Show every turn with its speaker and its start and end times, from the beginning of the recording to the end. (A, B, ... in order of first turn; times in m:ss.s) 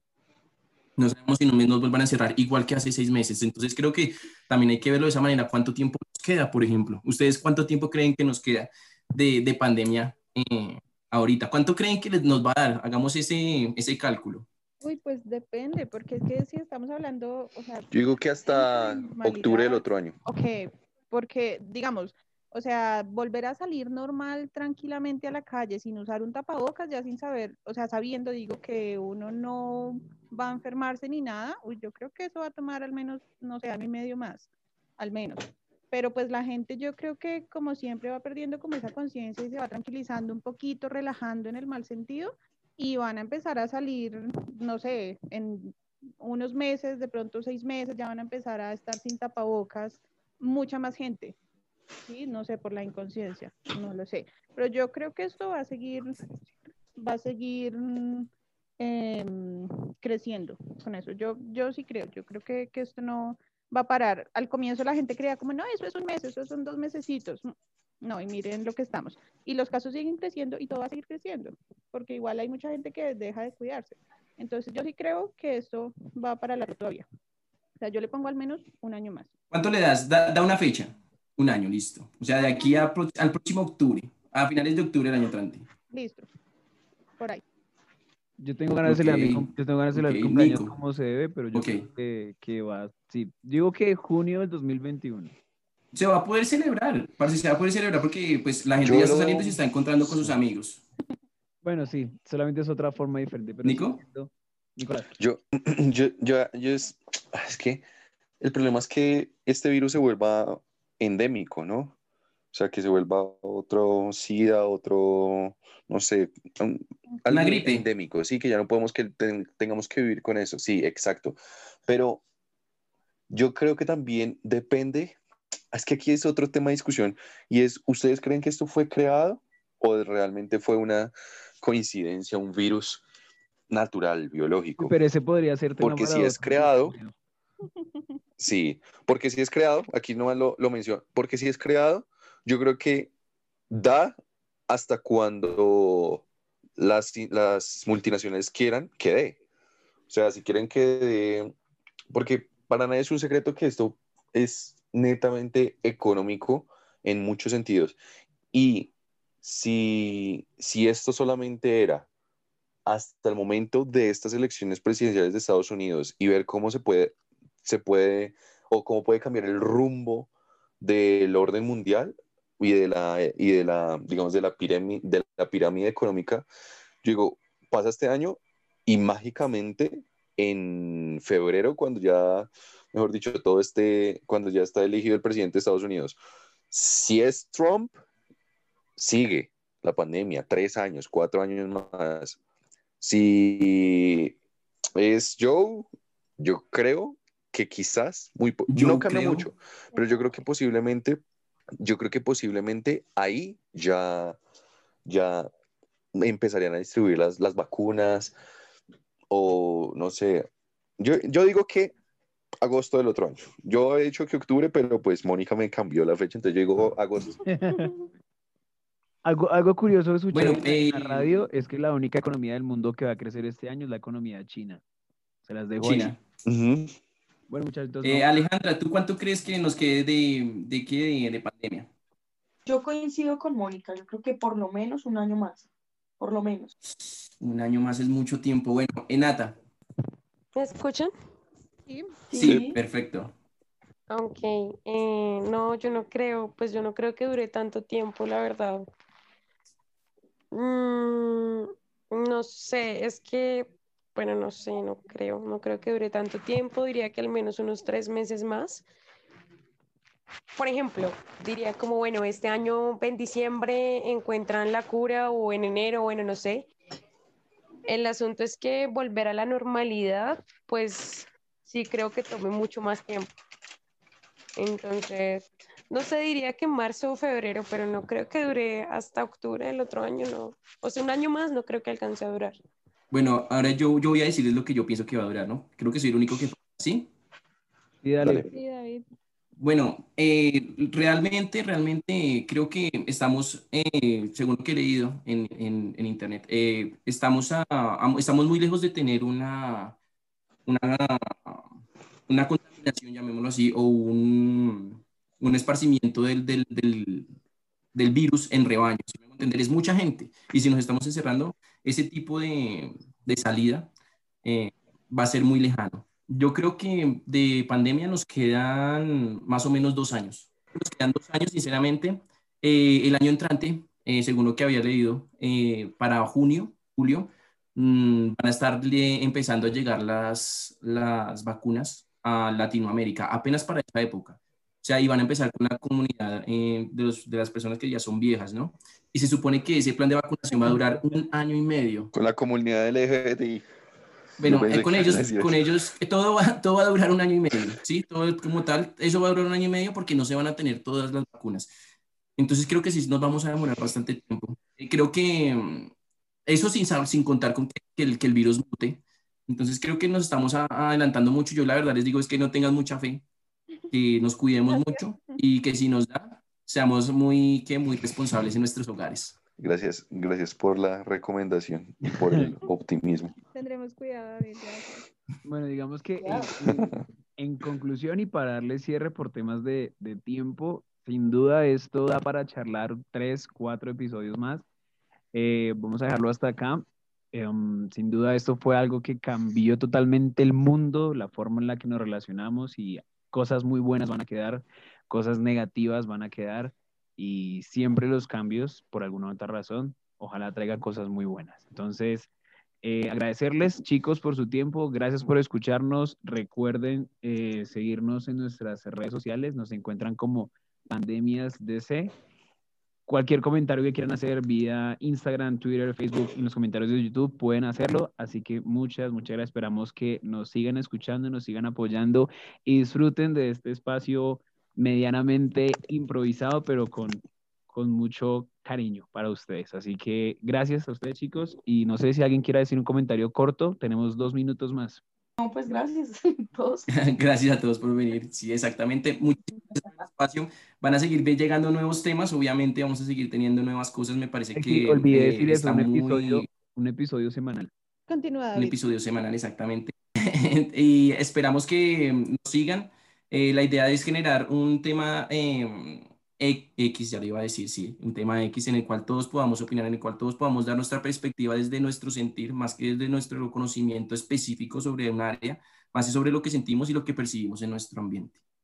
0:01.0-0:14.5 A
0:14.8-0:17.9 B
0:17.9-0:20.2 C
0:18.4-0:51.4 B
0:52.0-0:56.3 B
0:57.0-1:17.1 B
1:17.8-1:19.3 B
1:19.5-1:25.7 A
1:22.4-1:22.9 B
1:25.9-1:26.3 B
1:28.4-1:35.4 D
1:28.8-1:30.7 A
1:31.5-1:31.9 A
1:35.9-1:40.8 A
1:38.8-1:39.6 C
1:41.6-1:45.1 D
1:43.6-1:44.0 A
1:45.2-1:47.8 C
1:48.4-1:51.9 C
1:52.5-2:02.2 C
1:57.3-1:57.8 A
2:03.3-2:05.2 C
2:05.7-2:13.0 C
2:13.7-2:14.9 C
2:14.8-2:17.1 D
2:15.8-2:16.9 C
2:18.4-2:23.1 C
2:23.7-2:24.2 C
2:24.7-2:26.2 C
2:26.8-2:29.4 C
2:30.1-2:31.5 C
2:32.1-2:38.0 C
2:38.5-2:38.9 C
2:39.4-2:42.1 C
2:42.9-2:56.5 C
2:57.0-3:06.2 C
3:06.7-3:07.9 C
3:09.0-3:12.4 C
3:13.0-3:14.4 C
3:15.0-3:15.9 C
3:16.4-3:21.2 C
3:18.7-3:19.5 A
3:21.8-3:24.4 C
3:25.0-3:25.5 C
3:26.1-3:28.3 C
3:29.3-3:30.5 C
3:31.0-3:31.9 C
3:32.6-3:37.4 C
3:37.5-3:37.9 D
3:39.2-3:44.8 D
3:40.3-3:41.4 A
3:45.4-3:46.1 D
3:45.8-3:46.2 A
3:46.4-3:46.9 C
3:47.5-3:48.3 D
3:48.0-3:51.9 A
3:52.6-3:55.6 E
3:56.2-3:56.7 E
3:56.9-3:59.6 A
4:00.6-4:01.1 F
4:01.9-4:02.2 B
4:02.3-4:02.8 E
4:02.3-4:03.3 A
4:04.1-4:08.9 F
4:10.5-4:18.9 F
4:20.6-4:26.7 F
4:27.9-4:33.3 F
4:34.6-4:42.6 F
4:43.1-4:47.1 A
4:48.0-4:48.5 D
4:48.5-4:49.0 B
4:49.6-5:00.0 A
5:00.6-5:01.7 A
5:02.3-5:07.3 A
5:07.9-5:13.9 A
5:14.4-5:42.1 A
5:42.1-5:43.6 C
5:44.4-5:51.7 A
5:44.4-5:45.7 C
5:52.4-5:55.9 A
5:56.5-6:03.3 A
6:03.9-6:09.4 A
6:04.7-6:05.3 B
6:09.6-6:13.3 C
6:13.5-6:15.0 B
6:15.4-6:24.6 D
6:16.2-6:16.5 B
6:25.3-6:42.3 D
6:42.8-6:52.1 D
6:53.0-7:15.0 D
7:15.4-7:16.8 E
7:16.9-7:26.5 A
7:24.6-7:27.7 D
7:28.1-7:28.8 B
7:28.6-7:48.4 A